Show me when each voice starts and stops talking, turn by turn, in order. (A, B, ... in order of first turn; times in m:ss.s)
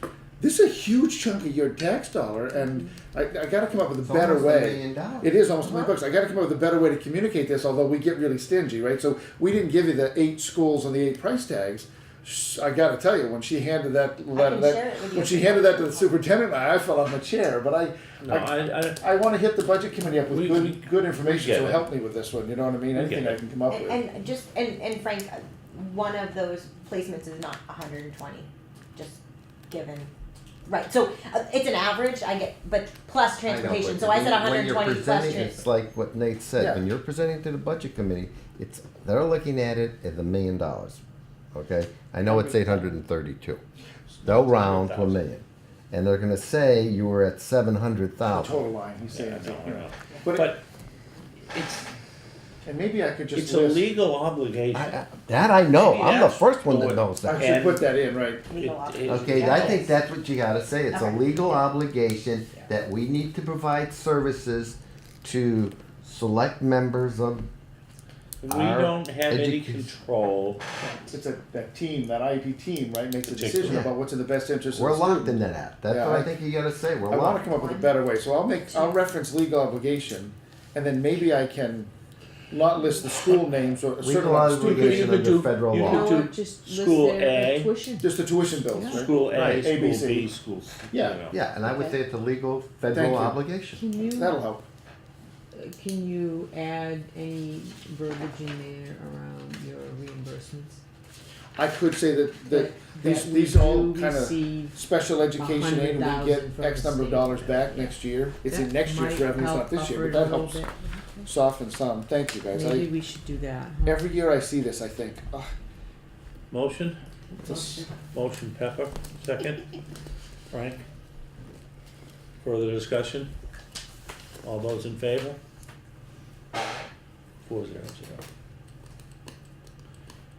0:00.4-0:24.0 A
0:04.0-0:05.3 B
0:05.6-0:05.9 C
0:14.3-0:16.2 C
0:18.2-0:19.0 D
0:20.2-0:21.9 D
0:22.9-0:23.4 D
0:23.6-0:30.1 C
0:30.6-0:35.6 C
0:33.4-0:41.0 B
0:36.6-0:36.8 A
0:41.5-0:43.6 B
0:42.2-0:42.9 A
0:44.1-0:45.2 D
0:44.2-0:48.6 B
0:48.3-0:50.6 A
0:49.1-0:50.6 D
0:51.5-0:51.9 D
0:52.6-0:53.8 A
0:53.3-0:57.9 D
0:54.7-0:57.4 B
0:57.2-0:58.5 A
0:58.5-0:59.9 C
0:58.5-0:59.9 D
0:59.1-1:07.5 B
1:00.9-1:01.7 C
1:08.4-1:10.6 D
1:08.5-1:09.9 B
1:11.1-1:16.3 A
1:13.3-1:13.8 D
1:13.6-1:13.9 B
1:14.7-1:17.4 B
1:17.1-1:21.9 A
1:17.4-1:18.0 C
1:18.7-1:19.0 C
1:22.5-1:25.2 A
1:24.0-1:26.2 B
1:24.6-1:27.7 D
1:25.7-1:28.1 E
1:28.0-1:30.3 A
1:28.8-1:31.4 D
1:29.3-1:29.6 B
1:30.9-1:31.2 A
1:31.3-1:33.8 B
1:32.9-1:33.4 A
1:33.7-1:34.4 E
1:34.1-1:34.7 A
1:35.5-1:40.8 E
1:41.6-1:50.6 A
1:42.5-1:51.3 E
1:51.2-1:52.9 A
1:52.5-1:54.1 E
1:53.8-1:55.5 A
1:56.5-1:57.0 D
1:57.3-1:57.9 E
1:57.6-1:59.6 D
2:00.5-2:00.8 D
2:02.4-2:03.3 D
2:04.4-2:05.4 D
2:07.5-2:08.2 D